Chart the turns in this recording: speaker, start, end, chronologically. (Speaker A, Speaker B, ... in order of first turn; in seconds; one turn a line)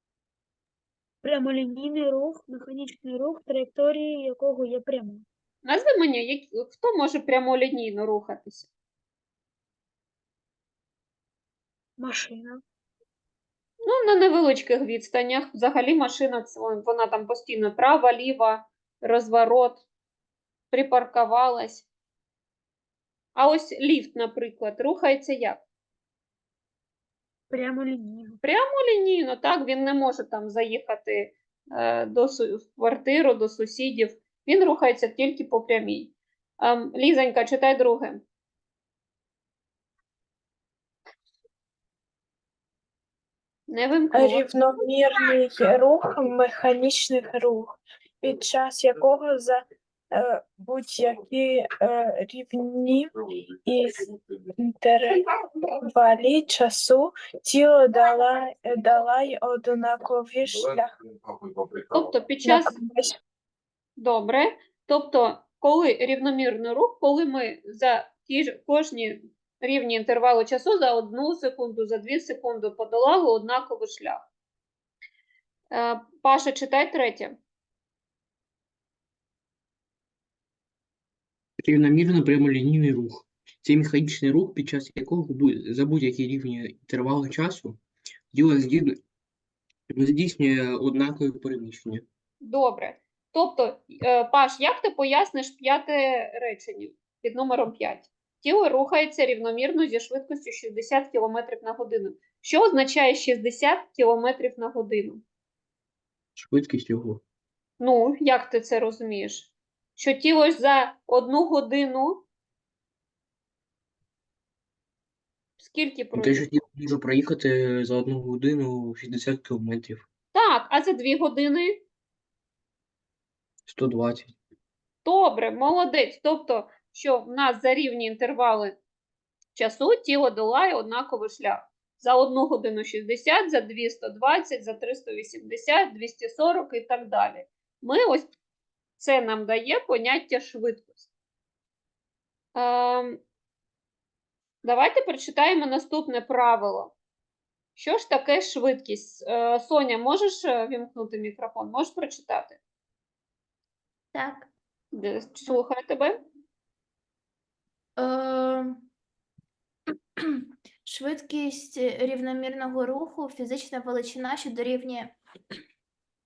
Speaker A: 1.2-5.2
Speaker B: 5.7-8.7
Speaker A: 12.0-12.6
Speaker B: 13.8-19.8
Speaker B: 20.7-21.9
Speaker B: 23.3-25.6
Speaker A: 27.5-28.4
Speaker B: 28.4-38.2
Speaker B: 43.7-44.5
Speaker C: 44.1-53.1
Speaker C: 53.6-61.0
Speaker B: 61.9-62.8
Speaker C: 62.4-63.1
Speaker B: 64.0-74.2
Speaker B: 75.7-77.3
Speaker D: 81.6-87.8
Speaker D: 88.3-89.0
Speaker D: 89.9-92.0
Speaker B: 92.4-105.2
Speaker D: 106.3-107.2
Speaker B: 107.8-112.2
Speaker B: 115.6-116.5
Speaker D: 116.2-120.0
Speaker B: 120.3-121.8
Speaker D: 123.7-124.3
Speaker B: 125.0-128.8
Speaker B: 129.5-138.3
Speaker B: 139.0-141.1
Speaker B: 142.5-143.2
Speaker B: 144.6-146.9
Speaker B: 147.8-152.6
Speaker E: 154.1-154.5
Speaker B: 154.9-156.2
Speaker E: 158.0-158.8
Speaker E: 160.2-165.2